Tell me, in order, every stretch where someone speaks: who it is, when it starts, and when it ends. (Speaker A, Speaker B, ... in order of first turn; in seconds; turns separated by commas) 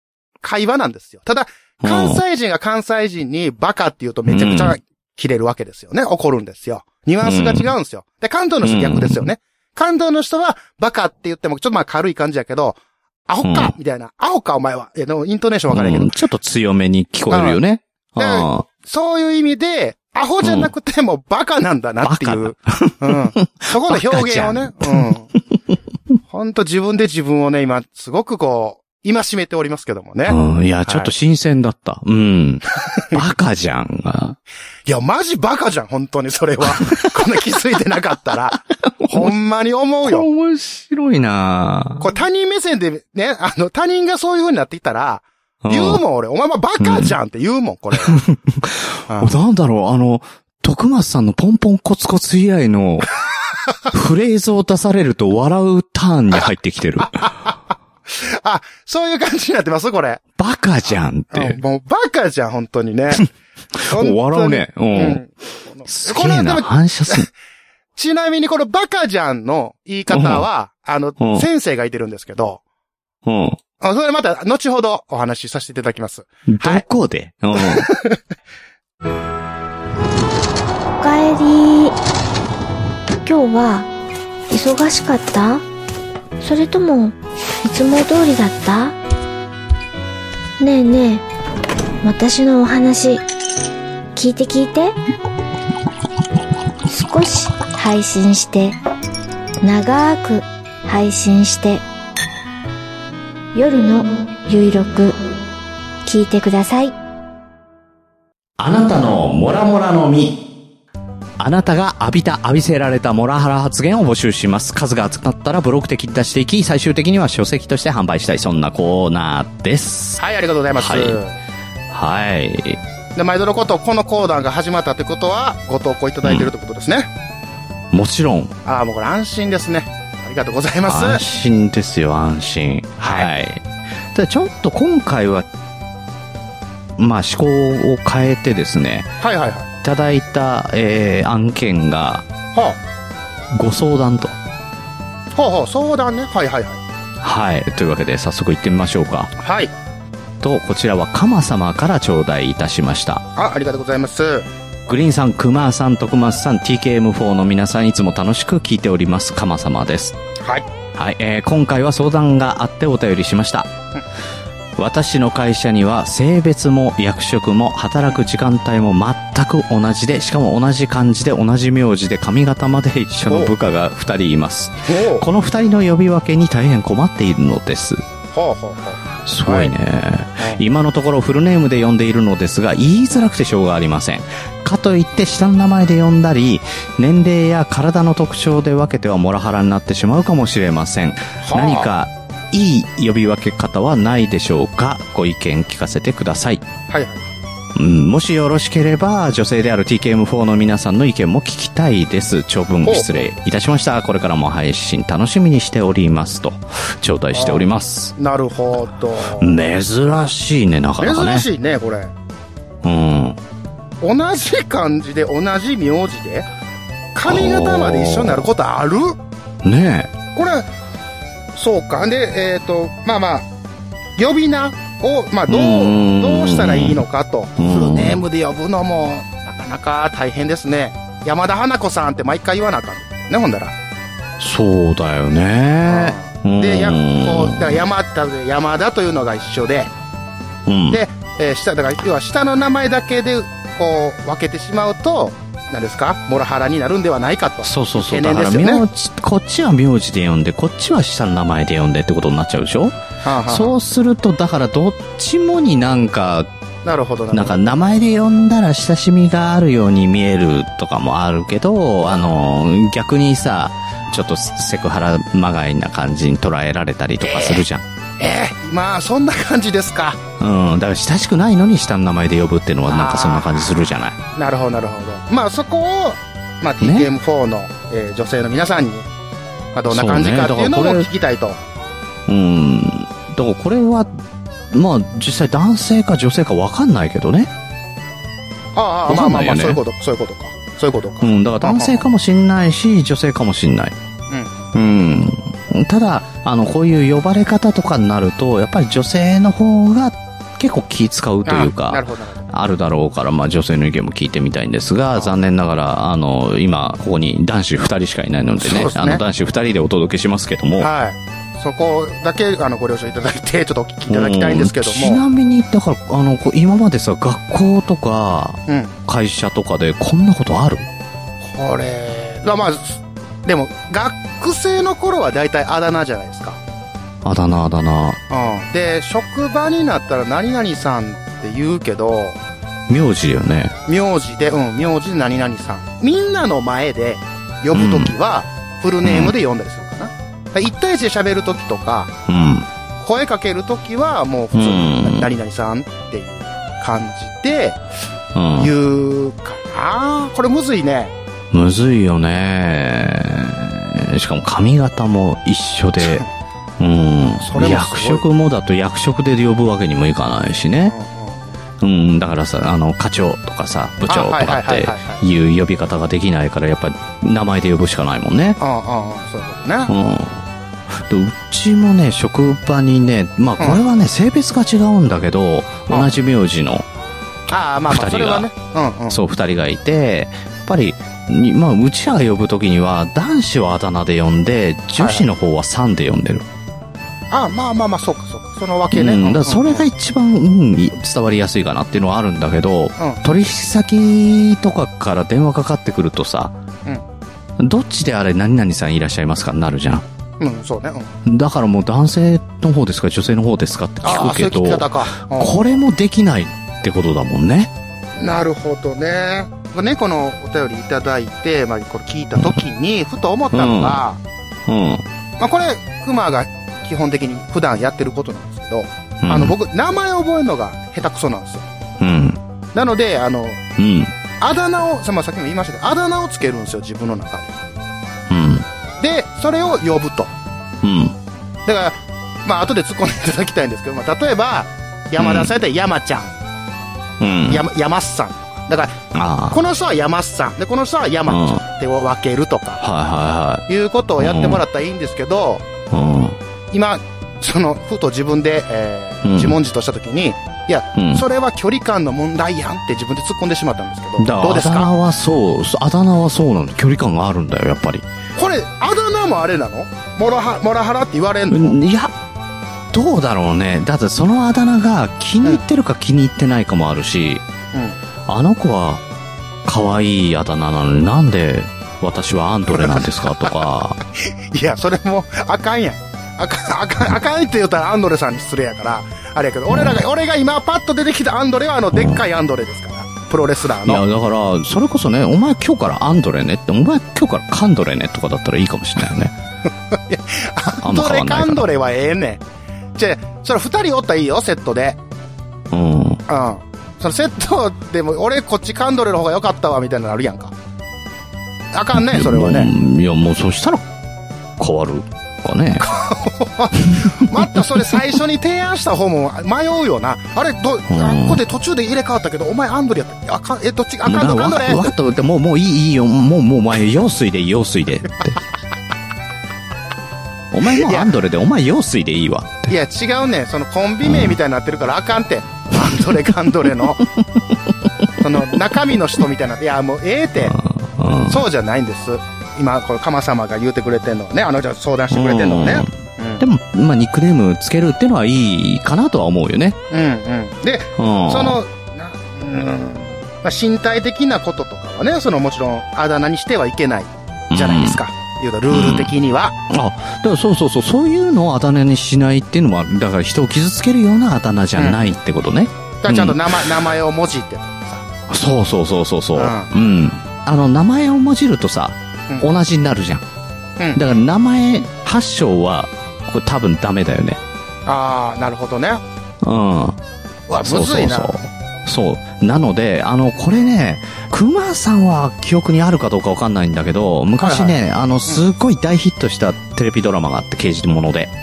Speaker A: 0.4-16.1, Speaker B: 1.8-2.2, Speaker B: 4.3-4.8, Speaker B: 7.2-7.7, Speaker B: 8.6-9.3, Speaker B: 13.4-13.7, Speaker B: 15.7-18.6, Speaker A: 17.3-17.6, Speaker A: 18.2-25.3, Speaker B: 20.4-20.7, Speaker B: 22.0-25.1, Speaker A: 26.3-31.1, Speaker B: 30.3-34.4, Speaker A: 33.0-33.2, Speaker A: 34.9-40.3, Speaker B: 36.6-37.1, Speaker B: 39.0-39.3, Speaker B: 40.0-42.0, Speaker A: 42.0-48.2, Speaker B: 45.6-46.0, Speaker B: 46.8-47.1, Speaker B: 48.1-53.1, Speaker A: 49.1-49.4, Speaker B: 53.9-57.4, Speaker A: 57.2-57.5, Speaker A: 58.1-60.2, Speaker B: 60.4-61.6, Speaker A: 61.3-63.3, Speaker B: 63.8-65.2, Speaker A: 63.9-67.3, Speaker B: 65.8-67.3, Speaker A: 68.0-72.6, Speaker B: 70.1-70.5, Speaker B: 71.2-71.5, Speaker B: 73.3-73.6, Speaker A: 73.8-76.8, Speaker B: 76.5-77.9, Speaker A: 77.6-78.2, Speaker C: 81.0-82.0, Speaker C: 83.2-83.9, Speaker C: 84.5-85.6, Speaker C: 86.4-89.0, Speaker C: 90.6-91.2, Speaker C: 92.0-93.2, Speaker C: 94.2-95.0, Speaker C: 96.9-98.8, Speaker C: 99.6-101.8, Speaker C: 103.5-105.2, Speaker C: 106.0-106.9, Speaker B: 108.6-110.3, Speaker B: 111.4-120.2, Speaker A: 120.2-121.3, Speaker B: 120.8-121.2, Speaker B: 121.9-122.8, Speaker A: 123.2-127.1, Speaker B: 126.2-126.5, Speaker B: 127.9-128.5, Speaker A: 128.7-131.2, Speaker B: 130.9-135.5, Speaker A: 133.0-133.3, Speaker B: 137.0-139.1, Speaker A: 139.2-139.7, Speaker B: 139.8-142.2, Speaker A: 142.5-142.8, Speaker B: 143.5-144.4, Speaker A: 145.4-146.8, Speaker B: 147.2-149.3, Speaker A: 149.4-149.7, Speaker B: 150.4-153.2, Speaker A: 153.4-154.5, Speaker B: 154.9-160.2, Speaker B: 161.0-163.7, Speaker B: 164.8-178.0, Speaker A: 173.3-173.5, Speaker A: 174.9-175.3, Speaker A: 178.3-179.8, Speaker B: 179.3-196.7, Speaker A: 180.4-180.6, Speaker A: 191.4-191.9, Speaker A: 196.9-197.2, Speaker B: 197.8-208.2, Speaker A: 202.8-203.3, Speaker A: 207.3-209.5, Speaker B: 209.4-211.5, Speaker A: 211.0-212.1, Speaker B: 212.8-213.4, Speaker A: 214.0-216.5, Speaker A: 217.1-219.2, Speaker B: 217.3-218.5, Speaker B: 219.6-220.1, Speaker A: 220.3-220.7, Speaker A: 221.5-223.5, Speaker A: 224.2-233.8, Speaker B: 225.5-227.0, Speaker B: 227.6-228.2, Speaker B: 234.4-237.8, Speaker A: 235.8-239.9, Speaker B: 240.7-241.0, Speaker A: 240.9-248.8, Speaker B: 247.6-256.5, Speaker A: 253.2-253.8, Speaker A: 256.8-257.6, Speaker B: 257.3-267.8, Speaker A: 267.2-267.6, Speaker A: 268.2-270.2, Speaker B: 270.4-274.2, Speaker A: 272.9-273.8, Speaker A: 274.3-279.1, Speaker B: 276.8-277.1, Speaker A: 279.8-281.6, Speaker B: 279.9-281.1, Speaker B: 282.3-284.1, Speaker B: 284.7-287.5, Speaker A: 288.7-292.1, Speaker B: 289.1-289.8, Speaker B: 291.2-293.9, Speaker A: 294.3-294.7, Speaker B: 294.7-310.9, Speaker A: 301.4-302.5, Speaker A: 308.6-309.2, Speaker A: 310.8-315.2, Speaker B: 314.1-320.9, Speaker A: 318.7-318.9, Speaker A: 321.4-326.6, Speaker B: 327.2-328.2, Speaker A: 328.3-332.4, Speaker B: 332.9-333.7, Speaker A: 333.9-342.2, Speaker B: 337.7-338.1, Speaker B: 339.0-339.4, Speaker B: 342.3-342.7, Speaker A: 343.0-347.8, Speaker B: 344.5-345.3, Speaker B: 348.3-348.7, Speaker A: 348.6-351.1, Speaker B: 351.5-356.2, Speaker A: 356.0-356.3, Speaker B: 356.8-360.9, Speaker A: 357.4-358.3, Speaker A: 360.9-361.6, Speaker B: 361.8-368.6, Speaker A: 364.1-365.2, Speaker A: 368.6-369.9, Speaker B: 369.9-370.5, Speaker B: 371.0-376.9, Speaker A: 377.5-379.2, Speaker B: 377.9-378.5, Speaker B: 379.1-386.4, Speaker A: 385.0-385.3, Speaker A: 387.3-389.9, Speaker B: 388.9-396.6, Speaker B: 397.6-400.0, Speaker A: 400.4-401.1, Speaker B: 401.2-407.7, Speaker A: 404.0-405.6, Speaker A: 408.2-414.2, Speaker B: 413.5-414.0, Speaker B: 414.7-415.0, Speaker A: 415.4-421.7, Speaker B: 419.2-419.6, Speaker B: 422.0-422.4, Speaker A: 422.7-423.6, Speaker B: 423.8-424.1, Speaker A: 424.4-427.6, Speaker B: 428.3-428.6, Speaker A: 429.0-430.3, Speaker B: 430.8-431.1, Speaker A: 431.7-436.3, Speaker B: 435.2-435.5, Speaker B: 437.2-437.7, Speaker A: 437.5-442.8, Speaker B: 439.1-439.6, Speaker B: 441.3-441.6, Speaker B: 442.8-443.7, Speaker A: 443.7-445.7, Speaker B: 444.2-444.6, Speaker B: 445.9-446.4, Speaker A: 446.7-454.9, Speaker B: 449.2-449.6, Speaker B: 450.9-451.2, Speaker B: 454.2-458.1, Speaker A: 458.4-461.8, Speaker B: 461.5-462.1, Speaker B: 462.9-467.4, Speaker A: 467.7-468.0, Speaker B: 468.3-469.0, Speaker B: 469.7-474.0, Speaker A: 472.7-473.6, Speaker A: 474.2-484.0, Speaker B: 479.7-480.0, Speaker B: 481.9-482.2, Speaker B: 483.8-489.4, Speaker A: 489.9-492.4, Speaker B: 490.8-491.7, Speaker A: 493.0-495.0, Speaker B: 495.7-496.2, Speaker A: 496.3-500.5, Speaker A: 501.7-502.7, Speaker B: 501.9-503.9, Speaker B: 504.6-505.9, Speaker A: 505.8-514.9, Speaker B: 506.8-507.6, Speaker B: 510.9-511.4, Speaker B: 514.0-518.4, Speaker B: 520.5-522.7, Speaker A: 520.7-521.1, Speaker A: 522.7-527.0, Speaker B: 524.0-524.4, Speaker A: 528.2-530.6, Speaker B: 530.4-531.4, Speaker A: 531.3-536.4, Speaker B: 535.1-539.8, Speaker A: 539.9-549.6, Speaker B: 541.0-541.6, Speaker B: 547.5-548.0, Speaker B: 548.7-549.1, Speaker B: 549.7-556.4, Speaker A: 556.0-558.1, Speaker B: 558.3-563.2, Speaker A: 559.4-559.7, Speaker A: 563.8-564.1, Speaker B: 564.0-567.4, Speaker A: 567.9-569.0, Speaker B: 569.4-570.0, Speaker A: 570.5-571.4, Speaker B: 570.6-581.3, Speaker A: 577.4-578.4